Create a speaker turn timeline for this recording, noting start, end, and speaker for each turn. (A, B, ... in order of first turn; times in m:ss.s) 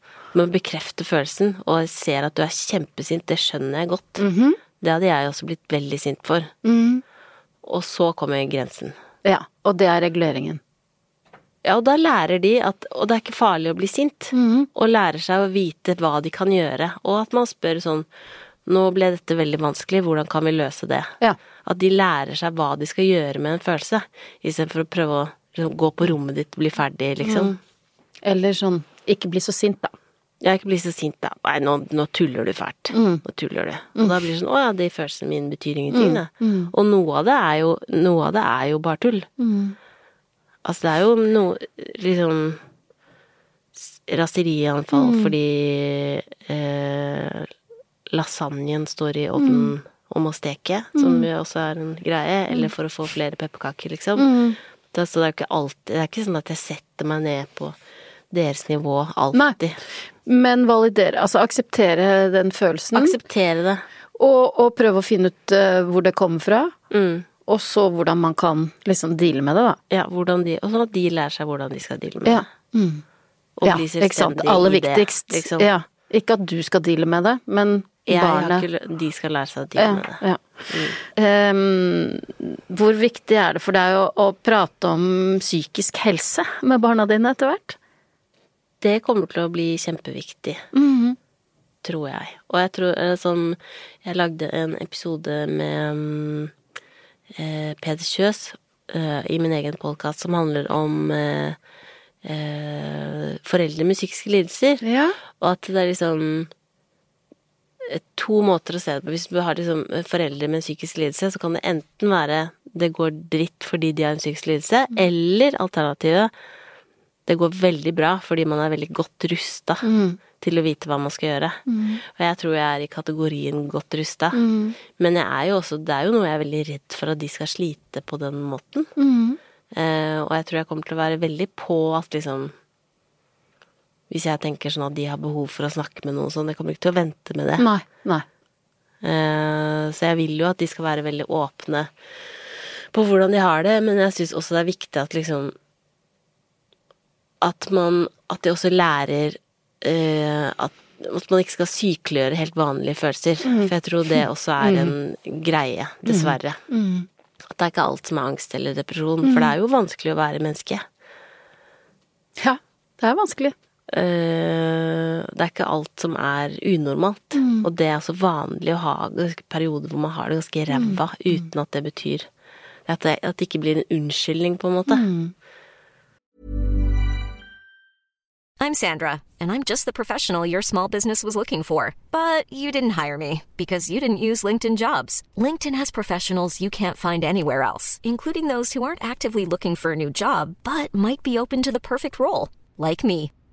0:00.3-0:04.2 A
0:04.2-0:04.6 B
0:04.8-0:06.5 A
0:06.6-0:07.0 B
0:07.6-0:09.0 A
0:09.2-0:10.6 B
0:11.6-0:18.1 A
0:14.3-0:14.7 B
0:18.7-0:21.1 A
0:21.6-0:27.6 A
0:27.2-0:27.6 B
0:28.2-0:29.9 B
0:30.4-0:39.3 A
0:32.9-0:33.2 B
0:35.9-0:36.7 B
0:39.4-0:39.8 B
0:40.6-0:42.6 A
0:43.8-0:47.5 A
0:44.9-0:45.3 B
0:48.1-0:54.3 A
0:49.4-0:49.7 B
0:51.0-0:51.3 B
0:54.2-0:54.6 B
0:54.9-0:57.8 A
0:58.3-0:59.8 A
1:00.3-1:03.1 B
1:02.9-1:03.8 A
1:04.2-1:06.7 B
1:06.9-1:07.3 A
1:07.5-1:09.8 B
1:09.9-1:12.4 A
1:12.2-1:13.0 B
1:13.6-1:15.7 A
1:13.7-1:18.6 B
1:18.1-1:21.0 A
1:19.8-1:27.8 B
1:28.8-1:30.6 A
1:30.7-1:31.2 B
1:31.8-1:36.5 A
1:37.4-1:41.6 A
1:42.2-1:44.8 A
1:44.8-1:45.2 B
1:45.4-1:46.5 A
1:47.8-1:56.3 A
1:57.3-1:59.9 A
1:59.8-2:00.2 B
2:00.4-2:04.4 A
2:01.7-2:02.0 B
2:04.3-2:04.8 B
2:05.0-2:08.9 A
2:09.0-2:09.4 B
2:09.7-2:12.5 A
2:14.1-2:17.7 A
2:17.6-2:18.3 B
2:19.0-2:21.9 A
2:22.9-2:25.6 A
2:27.4-2:36.6 A
2:33.5-2:34.9 B
2:36.1-2:37.1 B
2:37.5-2:40.8 A
2:39.2-2:39.5 B
2:42.4-2:43.6 B
2:43.9-2:52.3 A
2:47.4-2:47.7 B
2:50.7-2:51.0 B
2:52.9-2:55.1 A
2:54.9-2:55.3 B
2:58.6-3:13.3 C